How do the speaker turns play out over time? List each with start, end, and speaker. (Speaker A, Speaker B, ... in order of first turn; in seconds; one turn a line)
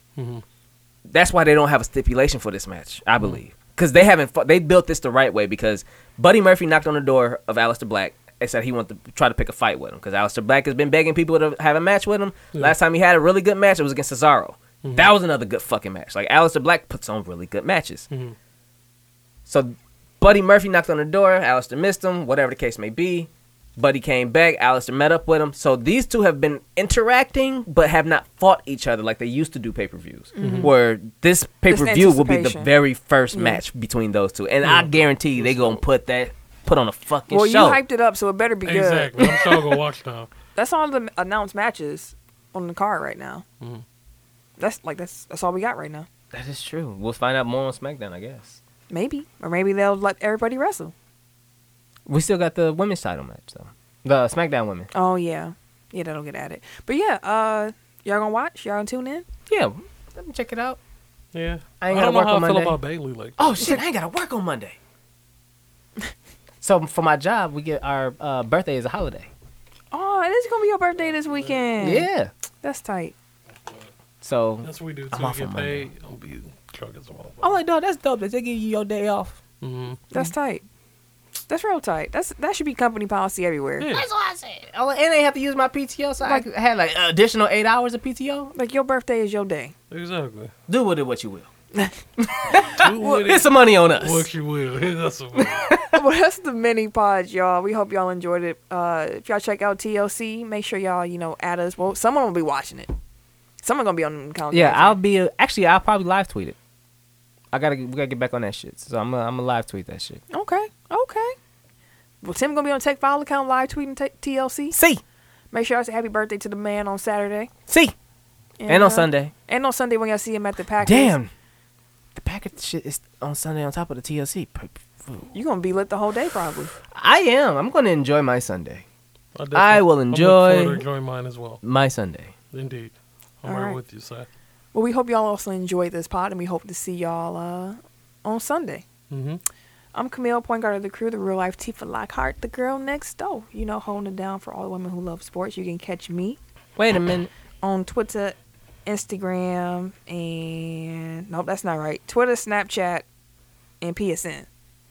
Speaker A: 0.1-0.4
Speaker B: 1.1-18.1
Speaker A: 14.8-15.1
Speaker A: 18.1-18.4
Speaker B: 19.4-37.8
Speaker C: 30.3-30.7
Speaker A: 30.4-30.7
Speaker C: 31.7-32.7
Speaker C: 33.3-33.6
Speaker A: 34.6-35.8
Speaker C: 37.3-39.6
Speaker A: 38.6-40.3
Speaker C: 40.5-43.4
Speaker C: 44.6-46.1
Speaker B: 46.3-48.6
Speaker C: 48.9-50.9
Speaker B: 52.1-54.9
Speaker C: 54.9-59.2
Speaker B: 59.5-60.8
Speaker A: 61.3-63.6
Speaker B: 61.8-62.8
Speaker B: 63.4-64.8
Speaker B: 66.6-69.3
Speaker C: 69.9-72.1
Speaker B: 71.8-72.3
Speaker C: 72.6-73.1
Speaker B: 74.2-75.9
Speaker A: 74.6-77.6
Speaker B: 77.4-79.4
Speaker A: 79.6-80.3
Speaker C: 80.1-80.6
Speaker C: 81.5-83.9
Speaker A: 83.8-84.1
Speaker B: 83.9-88.5
Speaker C: 88.5-89.7
Speaker A: 89.9-90.5
Speaker B: 90.7-91.5
Speaker B: 92.3-94.3
Speaker A: 92.6-95.7
Speaker B: 95.6-96.0
Speaker C: 95.8-102.9
Speaker C: 103.6-105.0
Speaker B: 104.5-106.5
Speaker B: 107.5-110.2
Speaker C: 110.3-111.3
Speaker C: 112.2-114.8
Speaker B: 114.7-115.0
Speaker C: 115.5-117.5
Speaker B: 117.7-117.9
Speaker C: 118.6-121.2
Speaker B: 118.7-119.3
Speaker B: 120.8-121.3
Speaker B: 122.1-125.3
Speaker C: 125.3-126.7
Speaker B: 126.9-128.8
Speaker A: 129.3-131.6
Speaker B: 129.5-130.8
Speaker B: 131.6-132.3
Speaker A: 132.5-134.3
Speaker C: 133.4-133.8
Speaker C: 134.7-138.8
Speaker A: 139.1-139.4
Speaker C: 139.9-146.4
Speaker B: 146.8-147.3
Speaker C: 147.6-153.0
Speaker C: 153.8-154.5